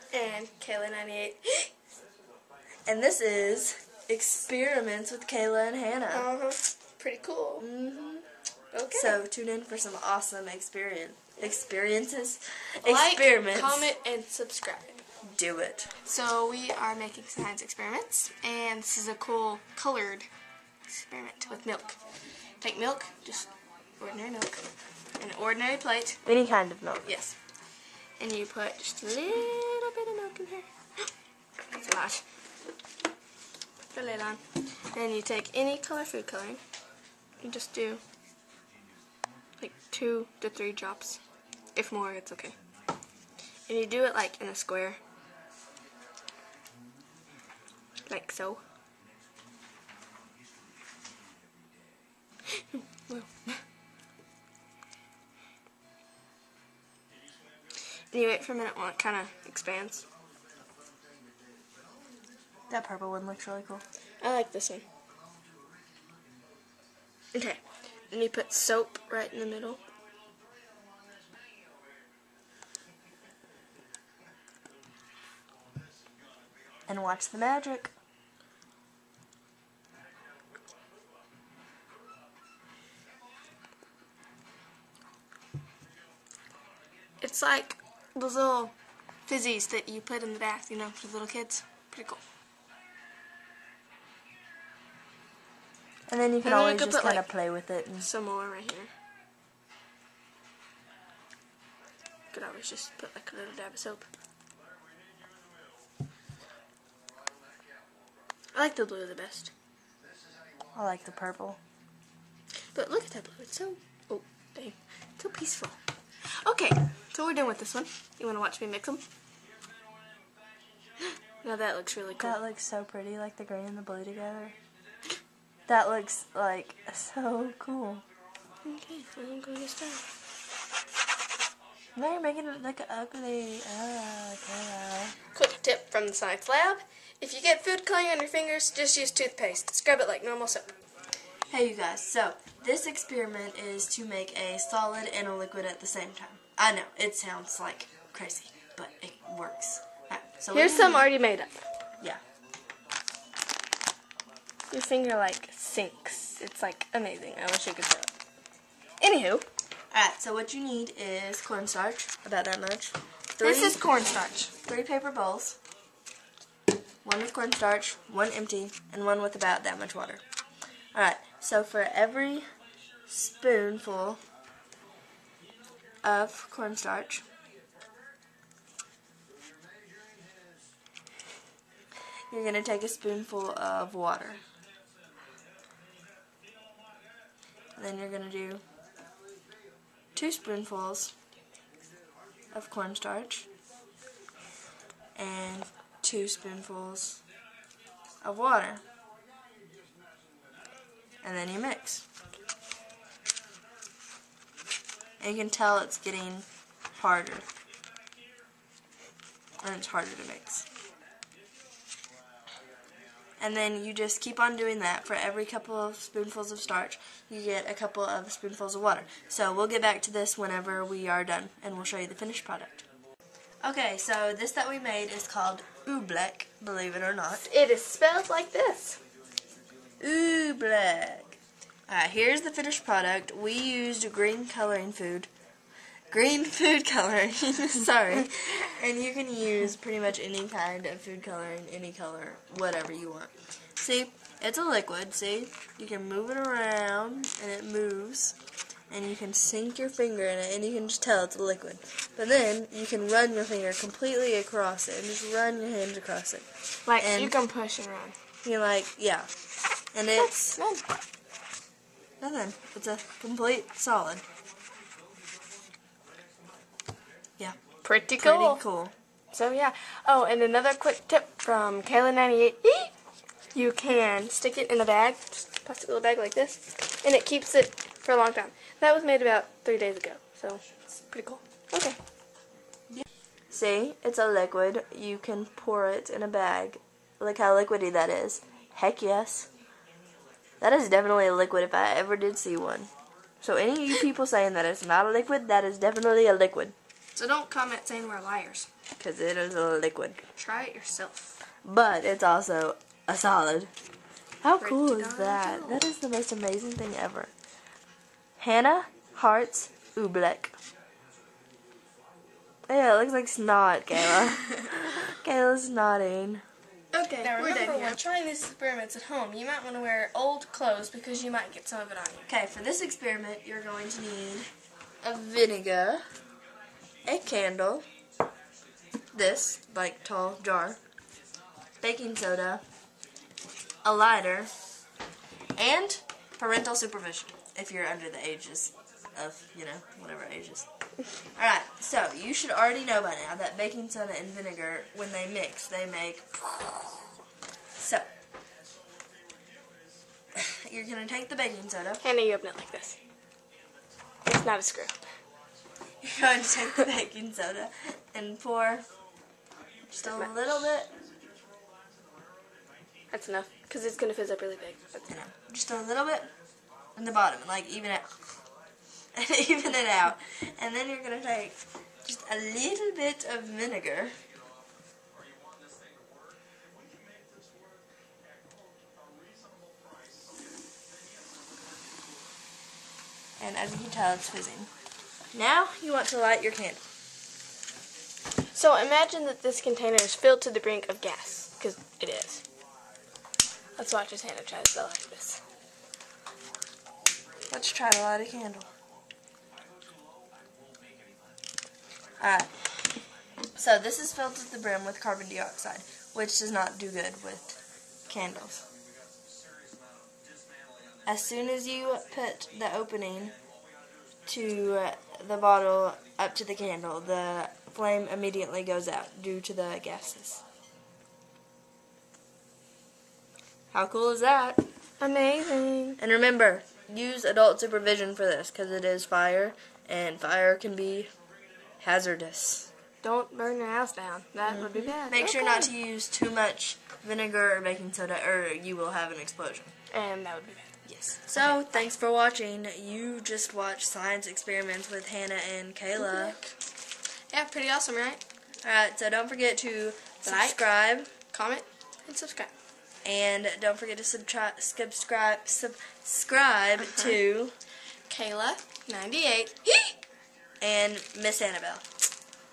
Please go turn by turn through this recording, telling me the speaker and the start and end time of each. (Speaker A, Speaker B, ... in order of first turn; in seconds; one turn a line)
Speaker A: 0.1-1.7
Speaker B: 2.9-6.2
Speaker A: 6.1-7.7
Speaker B: 7.6-8.2
Speaker A: 8.7-9.2
Speaker B: 8.9-13.9
Speaker A: 12.8-15.0
Speaker B: 15.2-15.9
Speaker A: 16.0-20.3
Speaker A: 20.9-22.0
Speaker A: 22.6-24.6
Speaker A: 25.2-26.2
Speaker B: 26.2-27.1
Speaker A: 27.1-27.3
Speaker A: 28.2-30.7
Speaker A: 31.7-32.2
Speaker A: 33.9-36.6
Speaker A: 37.4-38.0
Speaker A: 39.6-41.2
Speaker A: 41.8-42.5
Speaker A: 43.7-45.0
Speaker A: 48.1-48.6
Speaker A: 53.1-53.6
Speaker A: 58.1-60.0
Speaker B: 62.7-63.8
Speaker A: 64.2-64.8
Speaker A: 67.3-69.8
Speaker B: 76.9-77.9
Speaker A: 87.2-88.7
Speaker A: 89.3-92.2
Speaker B: 96.1-98.1
Speaker A: 96.4-97.2
Speaker A: 98.0-98.9
Speaker A: 102.3-104.0
Speaker A: 108.5-109.5
Speaker B: 110.7-111.6
Speaker A: 112.7-115.8
Speaker A: 116.4-119.0
Speaker A: 121.4-122.4
Speaker B: 122.2-124.5
Speaker B: 125.7-128.0
Speaker A: 128.6-130.0
Speaker B: 131.9-135.2
Speaker A: 135.3-140.7
Speaker B: 141.5-151.1
Speaker A: 150.5-151.6
Speaker A: 154.7-158.1
Speaker A: 159.0-159.4
Speaker B: 159.9-163.8
Speaker A: 163.4-164.5
Speaker B: 164.6-165.6
Speaker B: 167.0-170.2
Speaker B: 170.9-172.5
Speaker B: 173.1-174.2
Speaker B: 176.0-177.2
Speaker B: 182.3-184.4
Speaker B: 187.8-188.6
Speaker B: 190.1-191.1
Speaker B: 192.5-193.5
Speaker B: 195.2-197.2
Speaker B: 198.2-198.8
Speaker B: 201.2-202.1
Speaker B: 205.2-207.4
Speaker B: 209.6-210.7
Speaker B: 213.4-222.8
Speaker B: 223.6-227.5
Speaker A: 227.4-229.0
Speaker B: 230.0-231.4
Speaker B: 231.9-235.3
Speaker B: 236.1-248.3
Speaker B: 248.9-257.3
Speaker A: 256.9-258.1
Speaker B: 258.4-259.3
Speaker B: 259.9-260.6
Speaker A: 260.1-260.8
Speaker B: 262.2-264.2
Speaker A: 267.8-268.6
Speaker B: 268.2-268.9
Speaker A: 269.3-272.9
Speaker A: 273.5-282.0
Speaker B: 283.5-289.5
Speaker B: 290.6-292.9
Speaker B: 293.4-296.8
Speaker A: 297.1-298.7
Speaker B: 298.9-300.2
Speaker A: 300.3-301.4
Speaker B: 301.6-303.7
Speaker B: 304.4-307.3
Speaker A: 304.6-305.8
Speaker B: 308.4-310.6
Speaker B: 312.7-316.4
Speaker A: 316.9-322.3
Speaker B: 317.2-317.9
Speaker B: 322.3-324.5
Speaker B: 325.0-326.1
Speaker B: 327.1-327.8
Speaker B: 329.1-330.8
Speaker B: 331.8-332.6
Speaker B: 333.8-334.5
Speaker B: 335.6-340.6
Speaker B: 341.3-347.0
Speaker B: 347.8-348.1
Speaker B: 350.4-352.0
Speaker A: 352.0-353.0
Speaker A: 354.2-354.9
Speaker B: 356.0-358.9
Speaker B: 359.9-360.9
Speaker A: 360.0-360.3
Speaker A: 363.1-365.1
Speaker B: 365.1-366.3
Speaker B: 366.9-368.1
Speaker B: 369.1-374.1
Speaker B: 383.4-384.7
Speaker B: 385.3-386.8
Speaker A: 388.5-392.4
Speaker A: 393.8-395.4
Speaker B: 397.5-398.7
Speaker B: 402.2-402.5
Speaker B: 403.6-407.6
Speaker B: 408.1-408.6
Speaker B: 411.1-413.4
Speaker B: 414.2-420.4
Speaker B: 423.7-424.6
Speaker A: 425.0-426.0
Speaker B: 426.0-431.1
Speaker B: 431.8-432.7
Speaker A: 433.0-435.7
Speaker B: 434.5-439.7
Speaker A: 439.9-441.8
Speaker B: 441.3-446.4
Speaker A: 445.9-446.5
Speaker A: 447.3-448.2
Speaker B: 448.6-451.1
Speaker A: 450.2-450.6
Speaker A: 451.3-452.5
Speaker B: 453.1-457.6
Speaker A: 456.8-457.1
Speaker A: 458.1-459.9
Speaker B: 460.6-461.8